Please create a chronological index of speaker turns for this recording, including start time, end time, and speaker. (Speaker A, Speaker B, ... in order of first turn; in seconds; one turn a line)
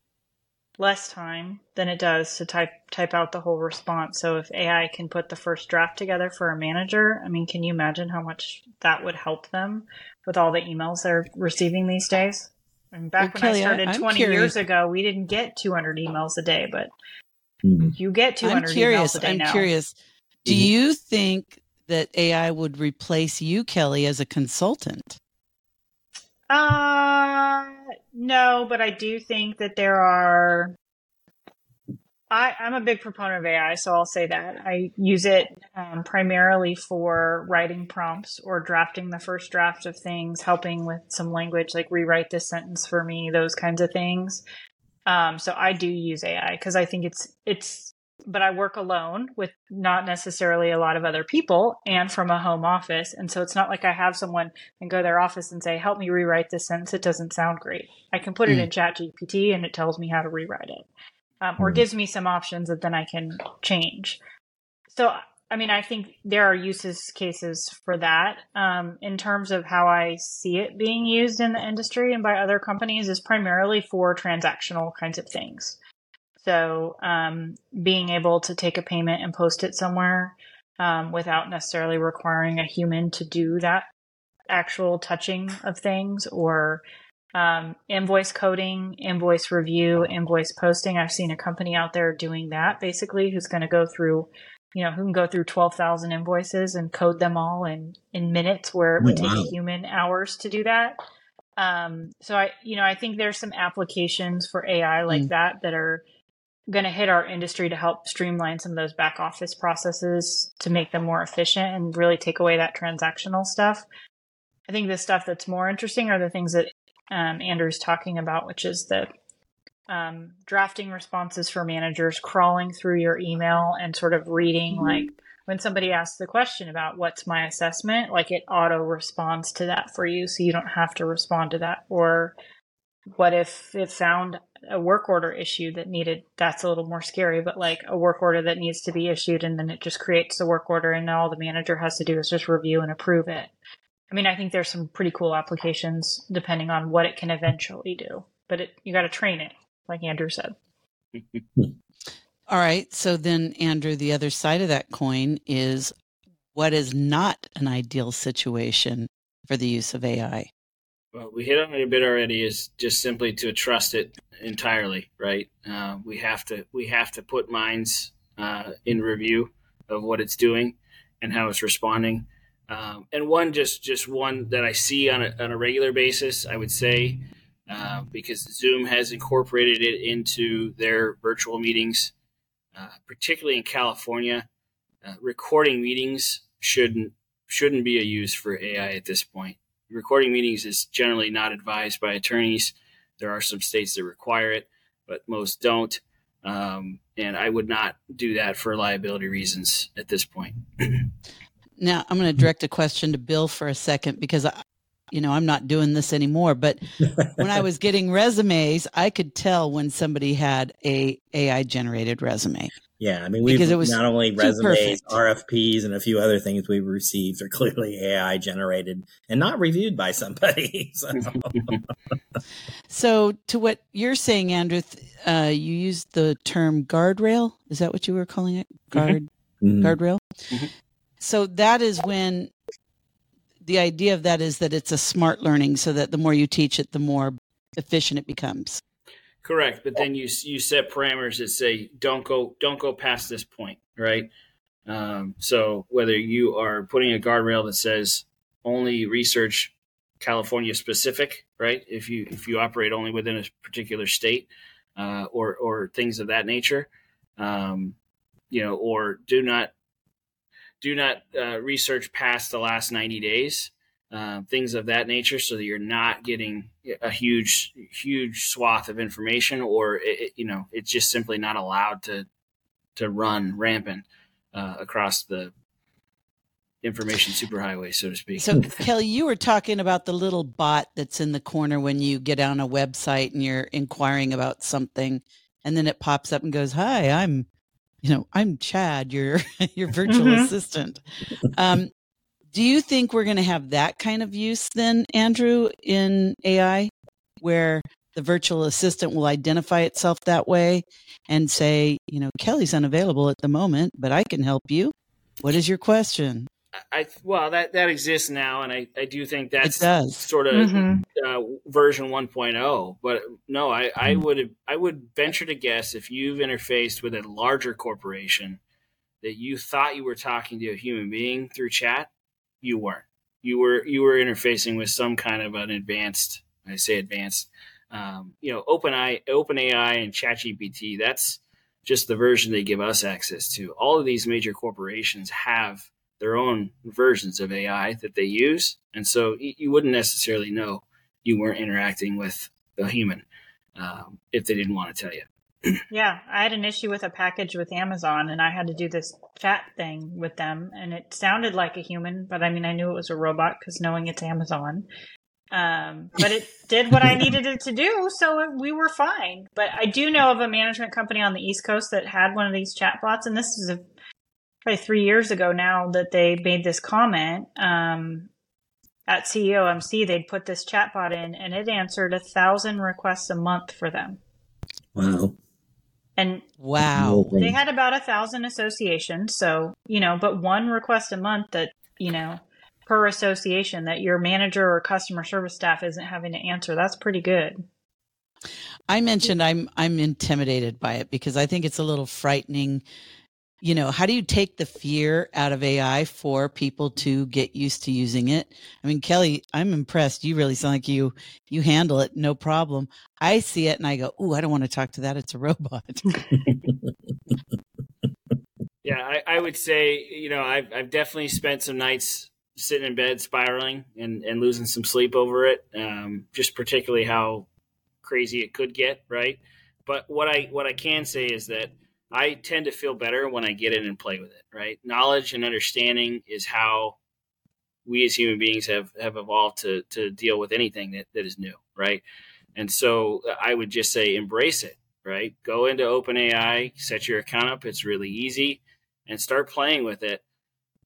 Speaker A: 0.8-16.9
Speaker B: 13.2-14.5
Speaker C: 17.6-17.9
Speaker A: 18.0-19.7
Speaker B: 18.4-25.2
Speaker A: 26.5-30.7
Speaker A: 32.3-44.4
Speaker A: 45.1-60.9
Speaker A: 61.4-64.2
Speaker A: 64.9-75.8
Speaker A: 76.4-83.9
Speaker A: 84.5-86.8
Speaker A: 87.3-101.0
Speaker C: 99.0-99.5
Speaker A: 101.6-106.0
Speaker A: 106.7-113.8
Speaker A: 114.7-119.1
Speaker A: 119.9-132.3
Speaker A: 133.2-143.5
Speaker A: 144.1-150.6
Speaker D: 151.1-151.4
Speaker B: 152.5-155.9
Speaker B: 156.5-160.5
Speaker D: 161.1-182.1
Speaker D: 182.7-184.5
Speaker D: 185.0-201.1
Speaker B: 201.8-204.6
Speaker B: 205.1-206.8
Speaker B: 207.3-212.7
Speaker C: 213.0-221.8
Speaker B: 213.4-215.2
Speaker B: 222.9-229.3
Speaker C: 229.6-229.9
Speaker B: 229.8-230.2
Speaker B: 231.2-232.5
Speaker B: 233.6-238.8
Speaker D: 239.4-244.3
Speaker D: 244.9-257.9
Speaker D: 258.5-259.7
Speaker D: 260.8-272.3
Speaker D: 272.9-275.5
Speaker D: 276.8-278.8
Speaker B: 278.4-287.5
Speaker B: 288.0-291.0
Speaker A: 290.1-290.5
Speaker B: 291.5-291.9
Speaker B: 292.5-306.5
Speaker D: 306.9-318.6
Speaker B: 309.6-310.2
Speaker A: 310.5-311.0
Speaker D: 319.2-322.1
Speaker D: 322.6-343.2
Speaker D: 343.8-345.8
Speaker A: 345.9-354.9
Speaker A: 355.5-363.8
Speaker A: 364.6-368.3
Speaker A: 369.1-374.2
Speaker C: 374.9-375.4
Speaker A: 376.2-376.4
Speaker B: 376.6-377.3
Speaker C: 376.9-377.6
Speaker A: 377.4-387.6
Speaker B: 388.9-392.8
Speaker B: 393.6-406.2
Speaker D: 408.8-417.5
Speaker D: 418.0-427.0
Speaker D: 427.9-432.0
Speaker D: 432.6-440.2